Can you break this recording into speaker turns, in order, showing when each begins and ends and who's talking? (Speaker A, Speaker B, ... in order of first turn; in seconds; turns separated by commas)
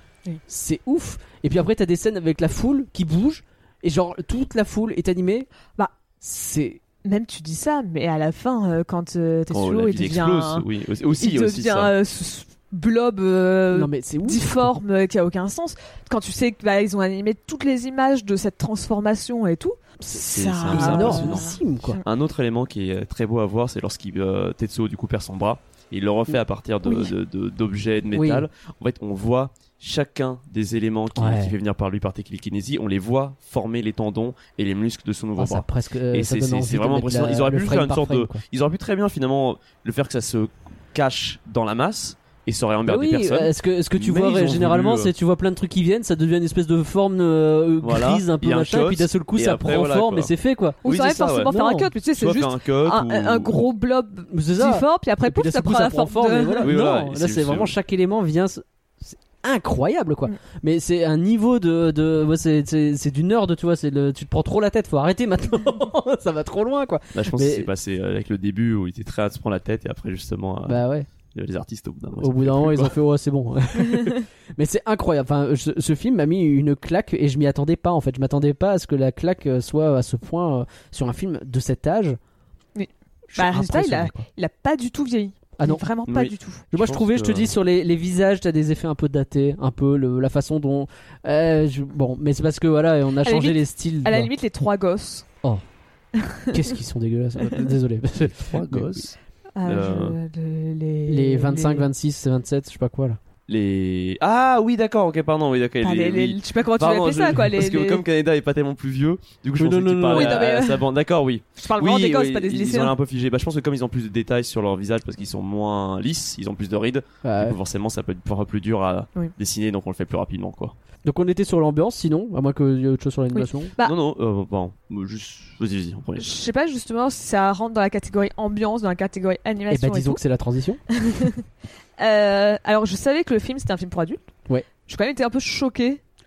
Speaker A: 0.5-5.5, Speaker A: 6.2-6.8, Speaker B: 7.0-10.7, Speaker C: 9.5-11.9, Speaker B: 11.2-22.0, Speaker A: 13.7-14.8, Speaker A: 20.0-22.0, Speaker C: 20.2-45.1, Speaker A: 28.1-28.4, Speaker A: 31.2-31.6, Speaker A: 35.4-38.4, Speaker A: 42.9-50.8, Speaker C: 47.8-50.3, Speaker C: 50.8-51.5, Speaker B: 50.8-56.7, Speaker A: 51.5-51.9, Speaker C: 52.2-53.6, Speaker A: 54.3-67.7, Speaker C: 56.6-57.7, Speaker C: 67.1-73.0, Speaker A: 70.7-71.1, Speaker A: 72.2-82.2, Speaker B: 82.7-86.6, Speaker A: 83.3-84.3, Speaker A: 85.6-85.9, Speaker C: 86.0-87.5, Speaker A: 86.7-94.3, Speaker B: 93.2-95.3, Speaker B: 96.2-96.6, Speaker A: 96.5-99.0, Speaker C: 98.3-100.2, Speaker B: 99.6-101.9, Speaker A: 101.1-103.2, Speaker C: 103.5-120.7, Speaker B: 105.8-108.0, Speaker A: 109.6-110.4, Speaker B: 110.1-110.9, Speaker B: 111.6-113.0, Speaker A: 117.2-117.5, Speaker A: 121.0-123.7, Speaker B: 123.3-124.0, Speaker C: 123.8-126.4, Speaker B: 126.2-130.2, Speaker A: 129.7-130.8, Speaker B: 130.9-131.4, Speaker B: 132.0-134.3, Speaker B: 134.8-136.0